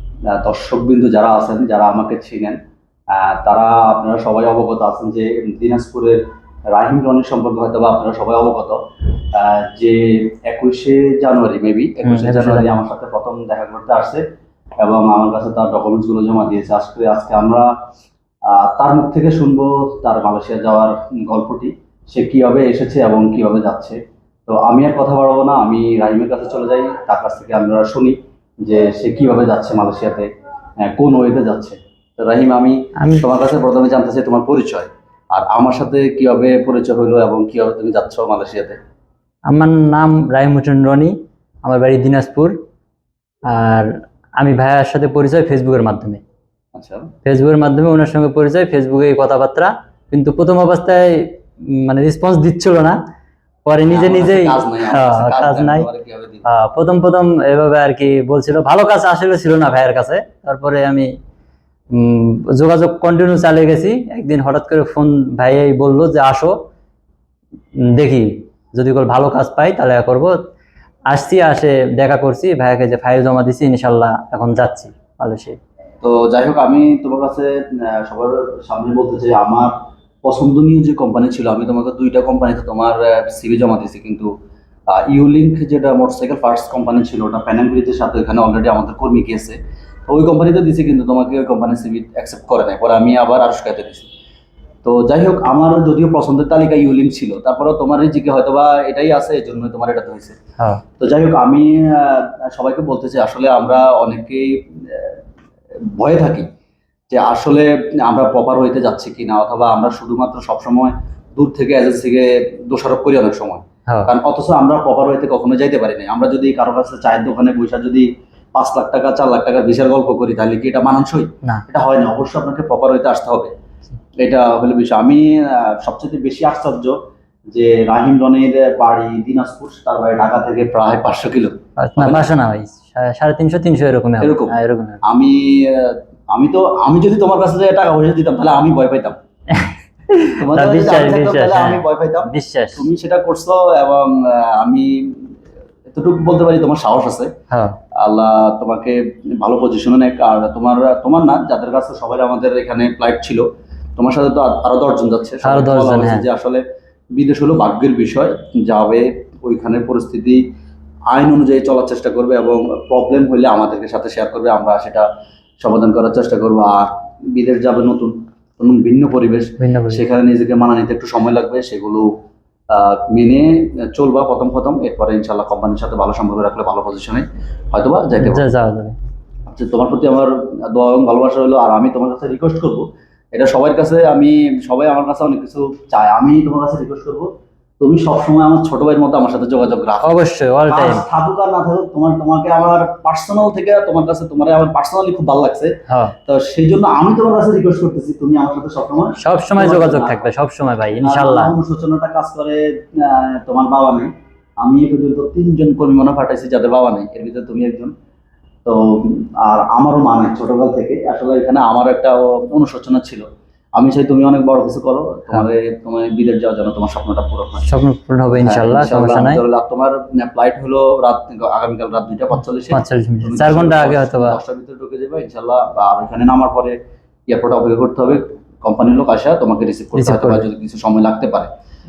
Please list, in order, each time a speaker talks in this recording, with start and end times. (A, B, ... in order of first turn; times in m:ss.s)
0:00.3-0:02.6 A
0:03.1-0:08.8 A
0:09.3-0:14.2 A
0:12.0-0:12.8 B
0:14.8-0:17.7 A
0:18.5-0:30.3 A
0:30.8-0:38.8 A
0:33.0-0:33.2 B
0:39.5-0:42.6 B
0:43.5-0:46.2 B
0:46.7-0:47.1 A
0:47.2-0:53.0 B
0:53.6-0:55.9 B
0:53.9-0:56.4 A
0:56.4-1:01.1 B
1:01.9-1:06.6 B
1:07.9-1:10.3 B
1:11.1-1:15.6 B
1:16.0-1:19.7 A
1:20.2-1:24.3 A
1:24.9-1:34.1 A
1:34.8-1:40.4 A
1:41.0-1:45.2 A
1:46.0-1:46.5 A
1:47.1-2:03.5 A
2:04.2-2:07.0 A
2:07.5-2:12.3 A
2:11.8-2:15.0 B
2:14.2-2:19.2 A
2:19.5-2:22.9 B
2:20.4-2:25.3 A
2:25.9-2:27.3 A
2:27.5-2:27.8 B
2:27.9-2:33.4 A
2:34.0-2:36.6 A
2:35.4-2:36.2 B
2:37.1-2:40.4 A
2:41.1-2:45.0 A
2:45.6-2:52.1 A
2:49.6-2:50.0 B
2:52.7-2:58.4 A
2:58.2-2:59.0 B
2:59.5-3:07.3 A
3:07.8-3:10.2 A
3:10.0-3:11.0 B
3:10.7-3:15.7 A
3:16.2-3:20.2 A
3:19.2-3:21.5 B
3:21.0-3:24.1 A
3:24.6-3:27.9 A
3:28.6-3:33.2 A
3:33.8-3:37.6 A
3:37.6-3:39.4 B
3:38.3-3:46.8 A
3:42.7-3:44.4 B
3:47.3-3:51.5 A
3:49.9-3:50.4 B